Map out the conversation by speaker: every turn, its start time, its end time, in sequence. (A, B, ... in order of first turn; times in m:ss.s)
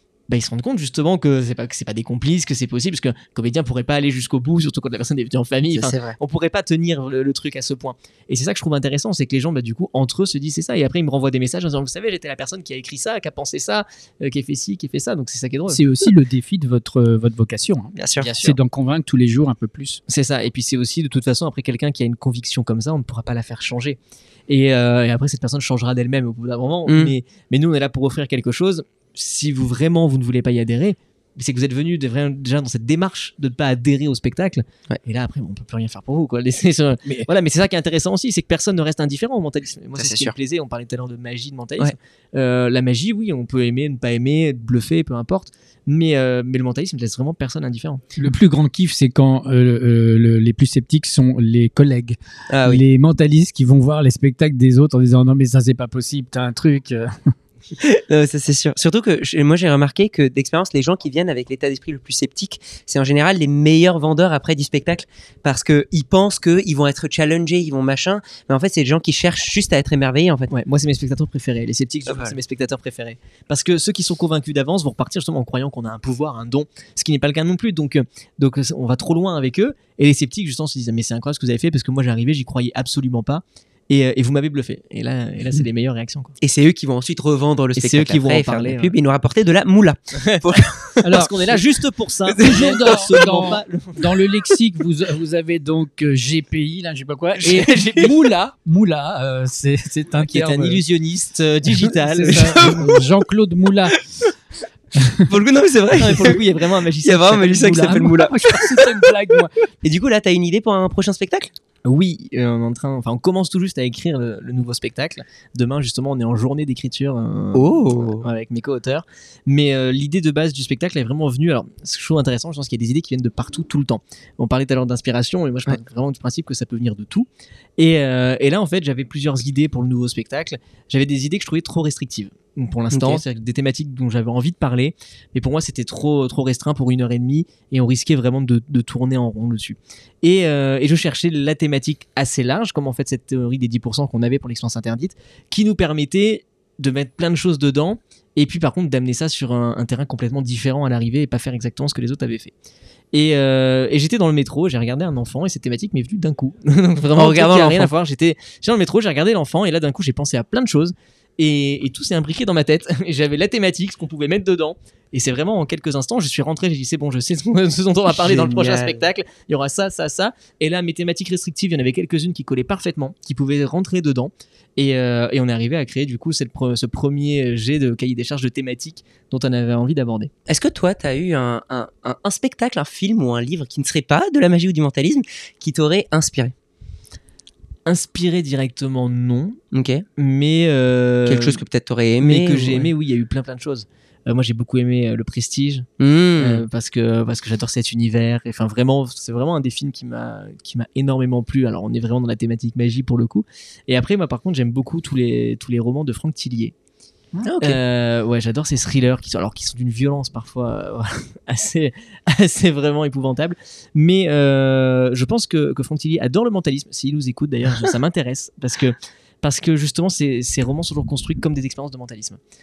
0:00.3-0:15.8 A
0:05.7-0:06.2 B
0:15.7-0:20.0 C
0:18.0-0:18.3 B
0:18.2-0:18.6 A
0:20.1-0:48.2 A
0:26.9-0:27.1 B
0:40.0-0:40.3 B
0:48.2-0:57.3 C
0:52.5-0:52.8 B
0:57.8-1:10.5 B
1:10.5-1:26.4 A
1:12.1-1:12.4 B
1:26.4-1:31.6 B
1:27.8-1:28.9 A
1:30.2-1:30.4 A
1:31.0-1:31.3 C
1:31.1-1:34.1 A
1:32.3-1:33.1 B
1:32.4-1:40.8 C
1:37.4-1:38.1 A
1:40.3-1:43.0 A
1:42.0-1:44.0 C
1:45.0-1:45.2 C
1:45.1-1:46.4 B
1:45.9-1:48.0 A
1:47.0-1:49.0 B
1:47.5-1:49.5 C
1:49.8-1:51.5 B
1:51.8-2:32.5 A
1:57.5-1:58.2 B
2:12.9-2:13.2 B
2:33.1-3:00.3 A
2:37.1-2:37.9 B
2:48.1-2:49.0 B
3:00.5-3:06.5 B
3:07.8-3:09.6 A
3:09.7-3:10.0 B
3:10.2-3:11.6 A
3:11.2-3:12.9 B
3:12.2-3:15.9 A
3:16.0-3:16.6 B
3:16.4-3:26.7 A
3:27.4-3:27.8 B
3:27.6-3:42.4 A